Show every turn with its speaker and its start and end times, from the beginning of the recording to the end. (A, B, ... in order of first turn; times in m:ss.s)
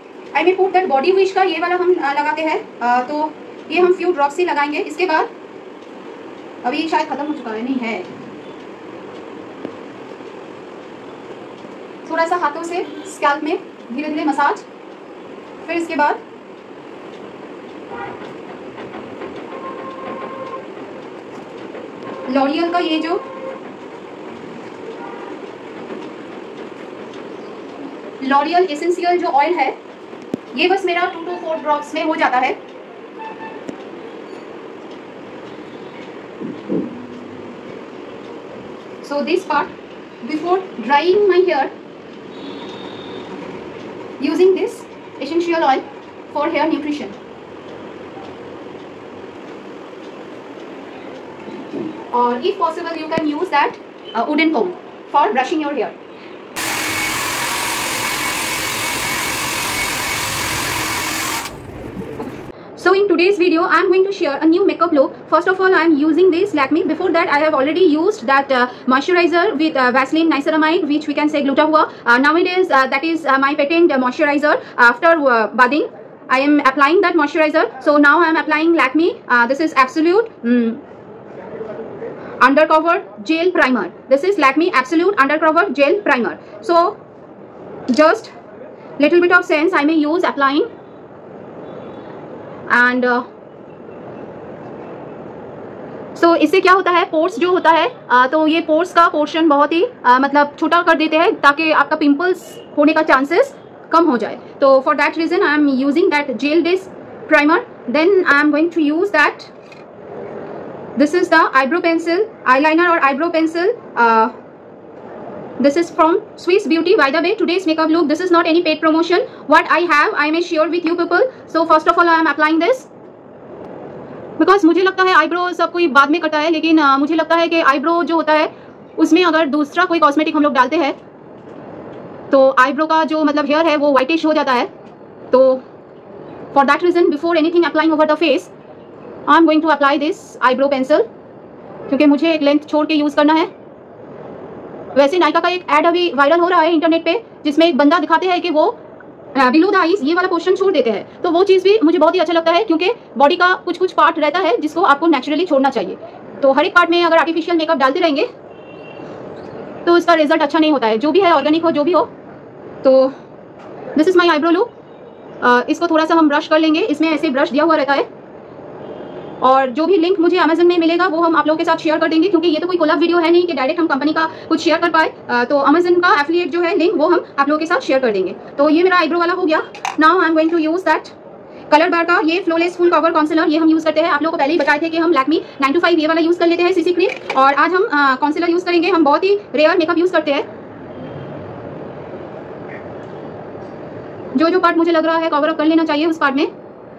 0:00.3-0:05.3 A
0:06.6-0:08.1 A
0:12.0-0:14.6 A
0:15.6-0:16.2 A
0:22.3-0:23.2 A
0:28.2-0:29.8 A
0:30.5-0:32.6 A
0:39.0-0:39.7 A
0:40.2-0:41.7 A
0:44.2-0:47.2 A
0:52.1-0:56.0 A
1:02.8-1:20.8 A
1:22.4-1:27.0 A
1:27.9-1:28.3 A
1:29.0-1:30.7 A
1:32.7-1:33.3 A
1:36.2-1:49.5 A
1:51.0-1:54.4 A
1:55.6-2:02.9 A
2:04.4-2:11.0 A
2:12.3-2:14.7 A
2:15.3-2:15.6 A
2:16.5-2:18.5 A
2:19.3-2:21.1 A
2:21.9-2:23.5 A
2:24.9-2:28.8 A
2:29.3-2:38.3 A
2:39.8-2:42.1 A
2:42.8-2:43.1 A
2:44.0-2:44.7 A
2:45.4-2:48.1 A
2:49.4-3:01.1 A
3:01.7-3:10.5 A
3:14.3-3:16.5 A